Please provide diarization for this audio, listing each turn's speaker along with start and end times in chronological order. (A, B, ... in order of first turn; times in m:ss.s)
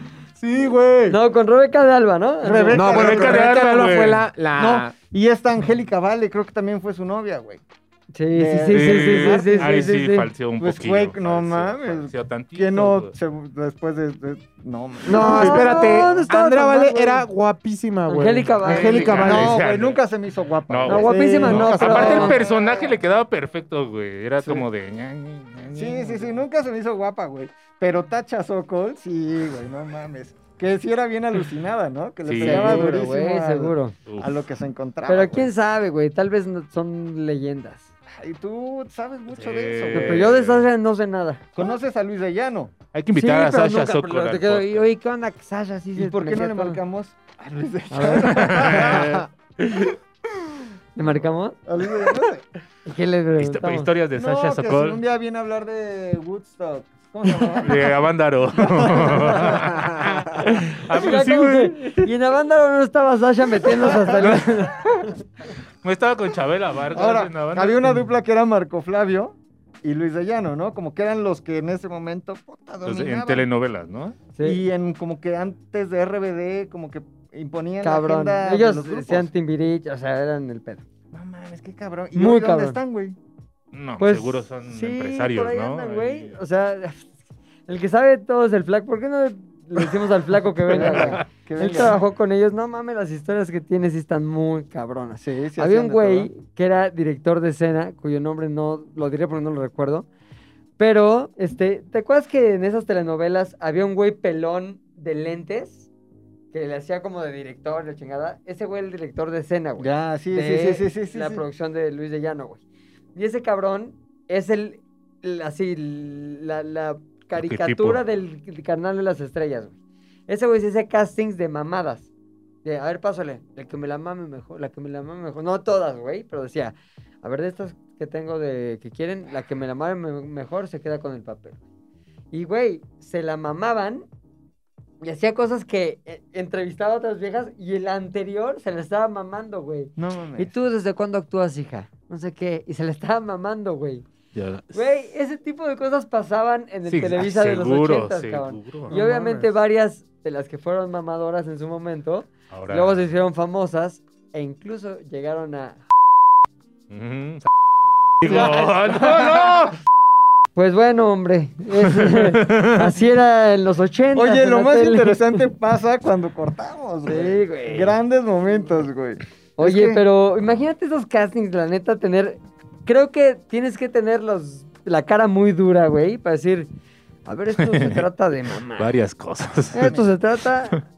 0:00.4-0:01.2 A
0:01.1-0:03.0 B
0:02.4-0:03.5 C
0:02.7-0:04.9 A
0:02.9-0:04.2 D
0:04.5-0:07.6 C
0:08.1-0:10.3 B
0:08.3-0:09.8 C
0:08.7-0:13.1 D
0:10.6-0:16.2 C
0:15.0-0:19.6 A
0:15.1-0:17.2 B
0:18.1-0:19.2 B
0:18.6-0:20.0 D
0:19.1-0:23.0 C
0:20.7-0:26.4 D
0:20.9-0:22.4 B
0:25.7-0:35.5 C
0:32.2-0:33.0 D
0:32.4-0:33.9 B
0:34.0-0:34.4 D
0:35.1-0:37.9 B
0:38.1-0:40.3 C
0:39.3-0:40.6 D
0:39.9-0:41.5 B
0:41.5-0:42.7 C
0:42.9-0:44.8 D
0:43.1-0:46.8 B
0:46.0-0:49.3 C
0:47.9-0:49.0 B
0:48.1-0:49.8 D
0:51.0-0:51.6 B
0:51.7-0:52.4 C
0:52.8-0:53.9 B
0:53.4-0:55.0 D
0:54.2-0:57.9 C
0:57.3-1:02.0 D
0:58.6-0:59.8 C
1:00.4-1:05.2 B
1:03.9-1:04.4 C
1:05.8-1:07.9 D
1:06.9-1:13.4 C
1:12.8-1:14.2 D
1:14.3-1:14.6 B
1:14.4-1:19.3 C
1:17.8-1:20.8 B
1:21.1-1:23.2 C
1:22.1-1:22.8 B
1:23.7-1:26.4 D
1:24.0-1:27.0 B
1:27.7-1:40.0 B
1:30.7-1:32.0 C
1:35.2-1:36.3 C
1:40.8-1:45.8 B
1:46.5-1:52.6 B
1:49.8-1:51.4 C
1:53.1-1:59.7 B
1:57.4-1:58.0 D
2:00.3-2:02.1 B
2:02.6-2:11.6 B
2:12.3-2:14.0 B
2:15.0-2:24.0 B
2:20.0-2:20.5 C
2:24.3-2:24.7 D
2:24.7-2:35.8 B
2:26.9-2:28.9 D
2:28.9-2:29.5 C
2:32.5-2:33.1 D
2:36.9-2:37.5 D
2:38.2-2:39.8 D
2:38.2-2:38.8 B
2:38.2-2:39.2 C
2:40.5-2:45.4 B
2:42.0-2:42.9 D
2:44.1-2:50.0 C
2:47.0-2:48.0 B
2:49.6-2:56.7 B
2:57.2-2:58.9 B
2:57.6-2:58.0 D
2:58.8-3:00.0 D
2:59.7-3:00.8 B